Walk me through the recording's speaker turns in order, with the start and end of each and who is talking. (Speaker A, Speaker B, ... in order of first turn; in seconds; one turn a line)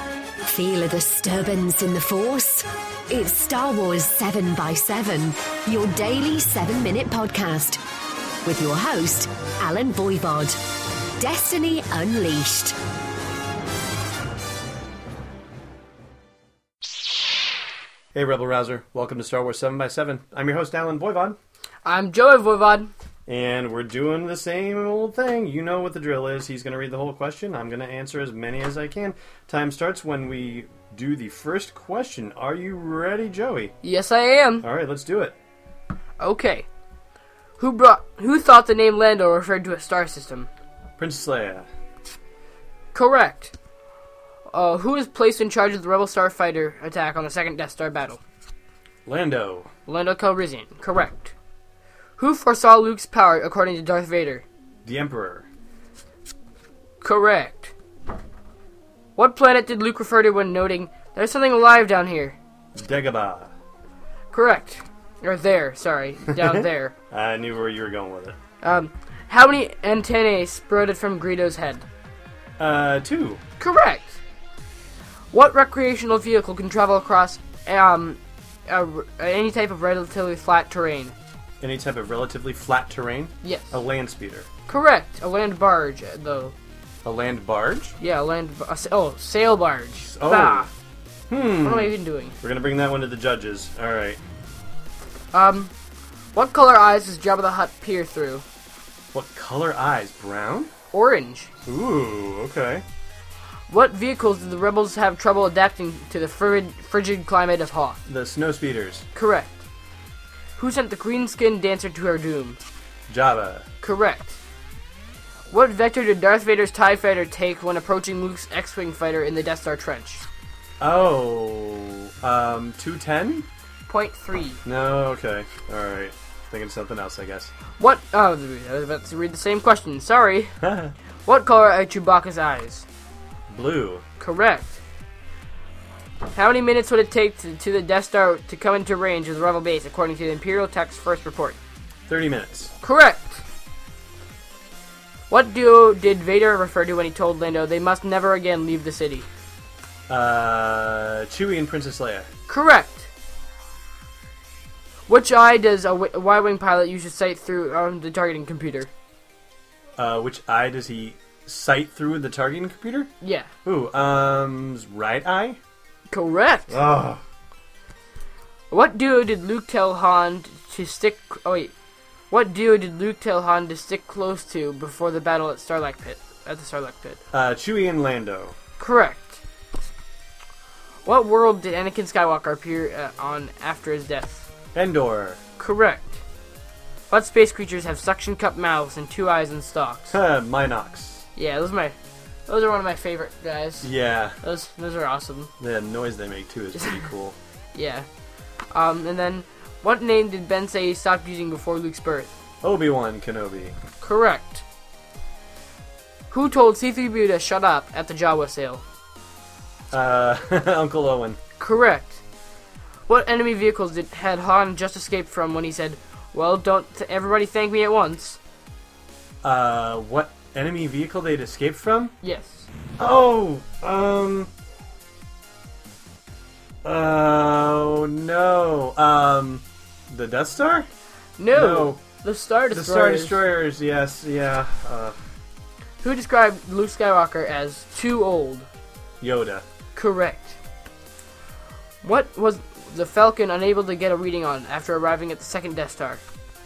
Speaker A: 0.5-7.8
Speaker A: 8.4-10.6
Speaker A: 11.2-12.8
Speaker B: 18.1-21.4
Speaker C: 21.8-22.9
Speaker B: 23.3-33.7
Speaker C: 33.8-34.6
Speaker B: 34.6-35.4
Speaker C: 36.2-36.7
Speaker C: 37.6-40.5
Speaker B: 41.0-41.7
Speaker C: 42.9-43.5
Speaker C: 44.5-48.2
Speaker B: 49.0-49.7
Speaker C: 49.9-51.3
Speaker C: 52.2-54.4
Speaker B: 54.8-55.5
Speaker C: 57.0-57.7
Speaker C: 59.2-62.4
Speaker B: 62.8-63.5
Speaker C: 64.3-66.9
Speaker B: 66.4-68.4
Speaker C: 68.6-71.8
Speaker B: 72.6-73.4
Speaker C: 73.6-74.2
Speaker C: 75.3-81.1
Speaker B: 81.6-84.5
Speaker C: 83.4-83.8
Speaker C: 84.7-86.5
Speaker B: 87.0-88.0
Speaker C: 88.0-90.7
Speaker B: 90.0-90.7
Speaker B: 91.3-94.2
Speaker C: 91.6-92.3
Speaker C: 95.3-95.7
Speaker C: 96.3-98.4
Speaker B: 99.1-100.7
Speaker C: 100.9-101.5
Speaker B: 101.7-102.8
Speaker C: 103.7-108.0
Speaker B: 108.1-109.1
Speaker C: 109.1-109.6
Speaker C: 110.6-112.6
Speaker B: 113.1-113.7
Speaker C: 113.8-114.4
Speaker C: 115.5-120.2
Speaker B: 120.8-123.5
Speaker C: 123.9-124.6
Speaker B: 124.7-127.5
Speaker C: 127.8-130.5
Speaker B: 130.6-130.9
Speaker C: 131.2-132.8
Speaker B: 133.5-134.0
Speaker C: 134.2-134.8
Speaker C: 136.3-141.6
Speaker B: 142.1-142.7
Speaker C: 142.8-143.4
Speaker C: 145.3-149.3
Speaker B: 150.1-152.3
Speaker C: 152.5-153.1
Speaker C: 155.1-158.9
Speaker B: 160.0-163.1
Speaker C: 163.2-163.5
Speaker B: 163.7-165.6
Speaker C: 166.1-166.7
Speaker B: 166.7-167.2
Speaker C: 168.7-171.7
Speaker C: 172.3-177.2
Speaker B: 177.3-178.5
Speaker C: 178.8-179.4
Speaker C: 181.0-184.5
Speaker B: 184.7-185.4
Speaker C: 185.6-186.2
Speaker C: 187.1-190.2
Speaker B: 190.1-191.3
Speaker C: 191.3-191.9
Speaker C: 192.5-195.5
Speaker B: 193.8-194.3
Speaker B: 195.6-197.3
Speaker C: 196.8-197.0
Speaker C: 197.7-198.1
Speaker C: 198.7-202.3
Speaker B: 202.6-203.8
Speaker C: 204.0-204.6
Speaker C: 206.3-208.8
Speaker B: 209.9-211.4
Speaker C: 211.6-212.2
Speaker C: 213.1-218.4
Speaker B: 219.4-222.1
Speaker C: 222.2-222.7
Speaker B: 223.0-224.5
Speaker B: 226.8-230.9
Speaker C: 231.4-233.4
Speaker B: 231.5-232.0
Speaker B: 232.7-235.2
Speaker C: 236.0-238.7
Speaker B: 239.2-239.6
Speaker C: 240.0-240.6
Speaker C: 242.0-246.2